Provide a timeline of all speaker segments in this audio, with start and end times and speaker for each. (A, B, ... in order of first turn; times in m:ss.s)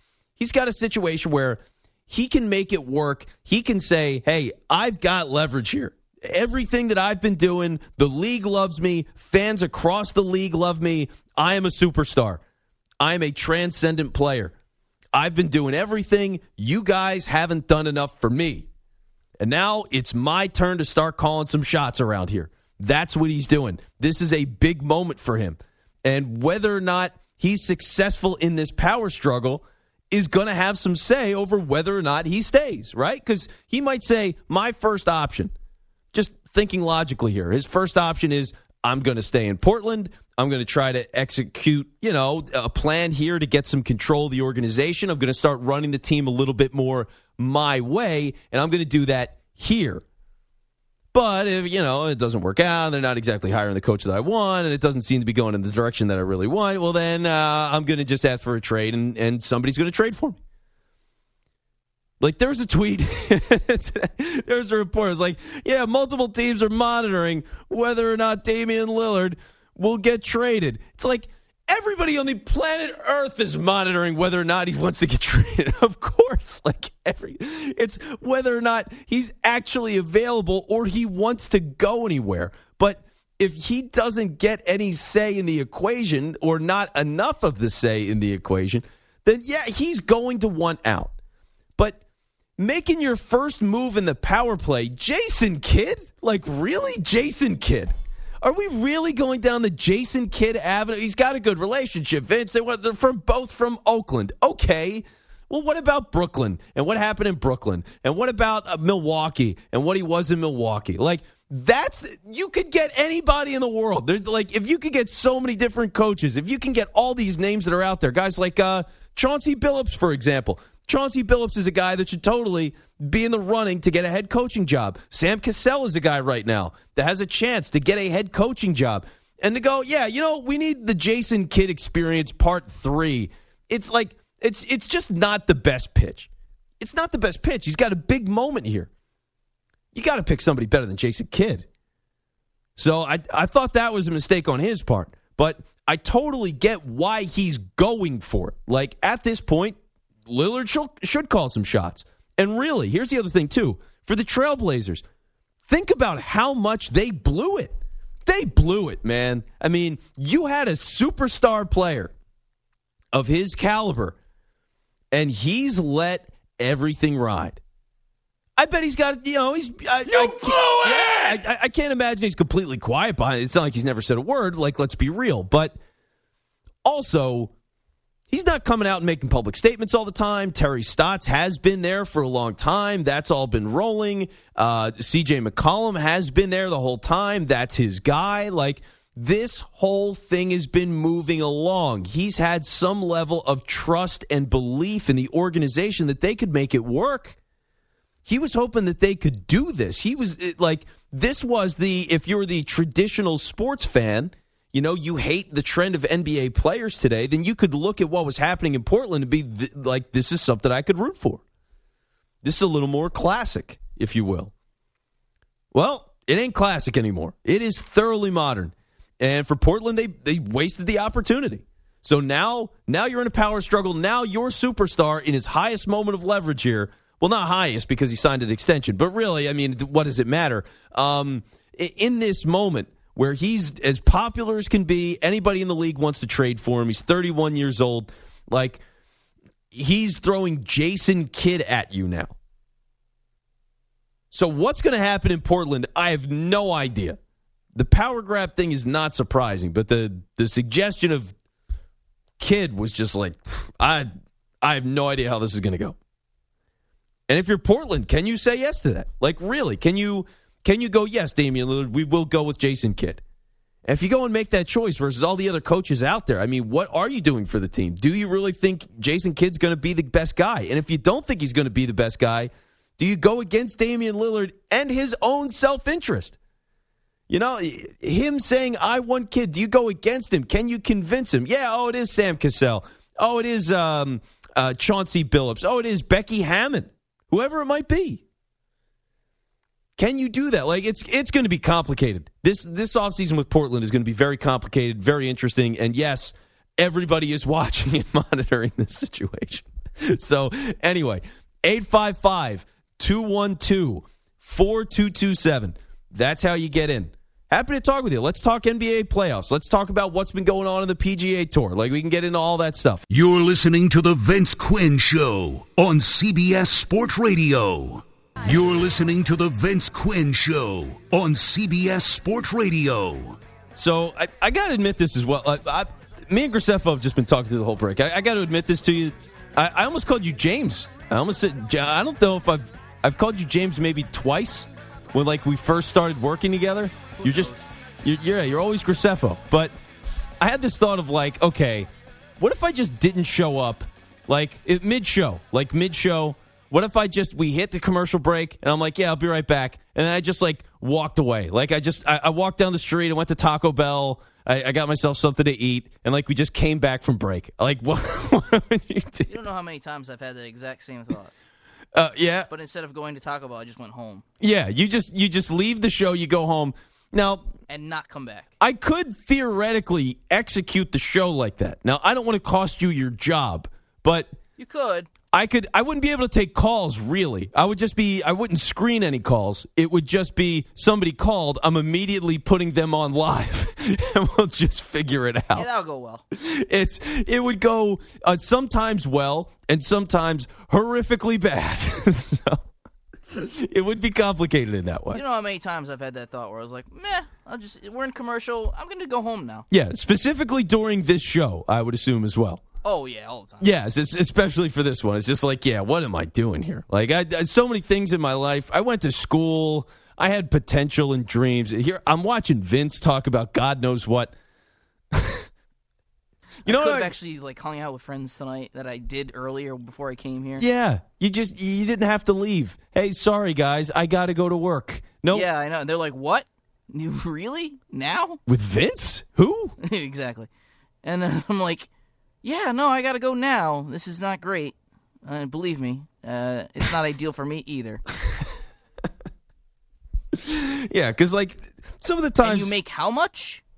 0:00.4-0:12.4 A
0:13.0-0:14.5 A
0:15.1-0:18.7 A
0:19.4-0:35.5 A
0:36.1-0:50.0 A
0:51.1-1:00.4 A
1:02.2-1:31.1 A
1:32.6-2:16.3 A
2:16.8-2:18.9 A
2:19.9-2:21.7 A
2:22.8-2:35.0 A
2:35.7-2:37.8 A
2:38.3-2:42.1 A
2:43.1-2:44.2 A
2:45.1-2:47.6 A
2:48.6-2:55.8 A
2:56.8-2:57.5 A
2:58.3-3:17.4 A
3:18.3-3:31.4 A
3:32.4-3:34.5 A
3:35.7-3:58.8 A
3:59.7-4:02.4 A
4:04.3-4:07.2 A
4:07.8-4:11.3 A
4:12.4-4:14.1 A
4:14.6-4:16.0 A
4:17.3-4:23.2 A
4:23.9-4:36.4 A
4:37.3-4:48.2 A
4:50.0-5:13.1 A
5:13.1-5:23.4 B
5:23.8-5:39.7 A
5:37.1-5:37.6 C
5:40.4-5:41.9 A
5:42.4-5:59.3 A
5:59.3-6:01.3 C
6:02.0-6:02.5 A
6:02.5-6:04.2 C
6:04.4-6:07.5 A
6:07.7-6:08.5 C
6:08.6-6:14.3 A
6:14.6-6:15.1 C
6:15.3-6:25.7 A
6:25.6-6:26.2 C
6:26.3-6:32.6 A
6:33.3-6:35.2 A
6:35.1-6:39.7 C
6:39.7-6:42.6 A
6:42.8-6:43.7 C
6:43.6-6:54.3 A
6:55.1-6:55.4 A
6:56.6-6:57.1 A
6:56.6-7:00.7 C
7:00.6-7:05.5 A
7:05.3-7:08.4 C
7:08.5-7:09.8 A
7:09.8-7:10.5 C
7:11.0-7:11.9 C
7:12.4-7:14.8 C
7:15.3-7:18.0 C
7:20.4-7:22.7 A
7:22.4-7:23.6 C